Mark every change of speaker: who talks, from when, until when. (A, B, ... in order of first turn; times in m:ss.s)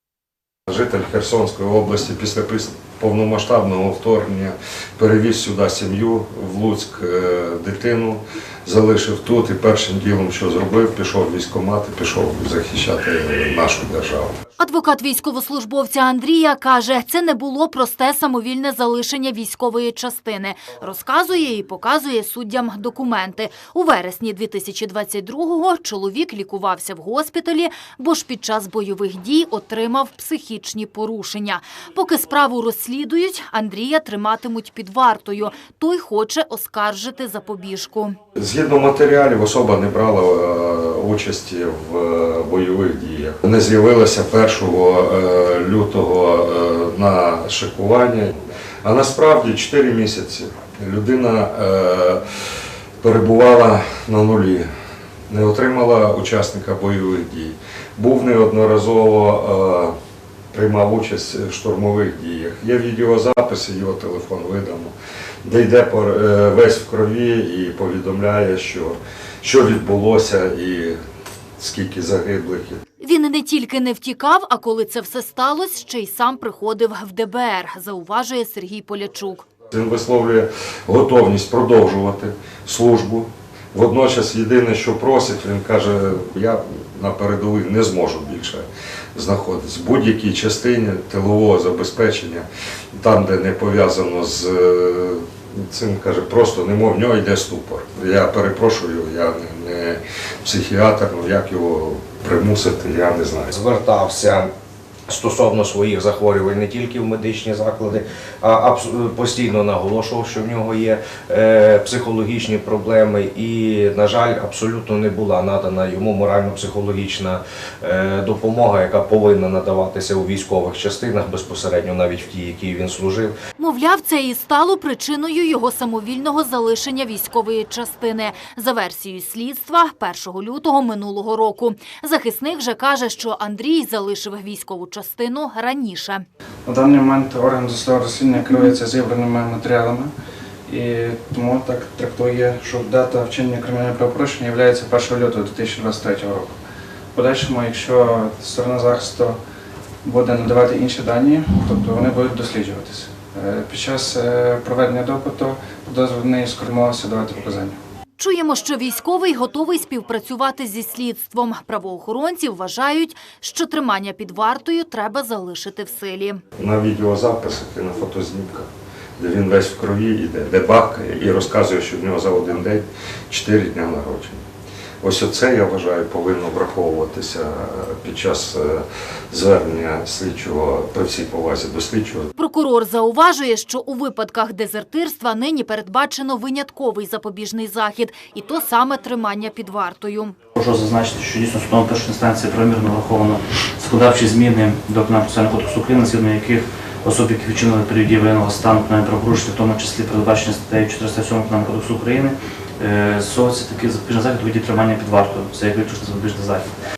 0:00.7-0:14.3 A
0:14.6-0:38.2 B
0:38.4-0:52.3 A
0:53.0-0:54.7 A
0:55.3-0:59.9 A
1:00.5-1:04.9 A
1:05.4-1:11.0 A
1:11.6-1:12.8 A
1:13.0-1:19.5 B
1:19.7-1:43.5 A
1:43.5-1:44.5 C
1:45.1-2:03.3 C
2:03.6-2:16.2 B
2:16.6-2:20.1 D
2:20.7-2:26.6 D
2:27.1-2:29.4 D
2:30.0-2:37.8 D
2:38.2-2:46.4 B
2:46.6-2:54.4 A
2:55.0-3:02.3 A
3:02.4-3:10.4 B
3:10.6-3:26.7 E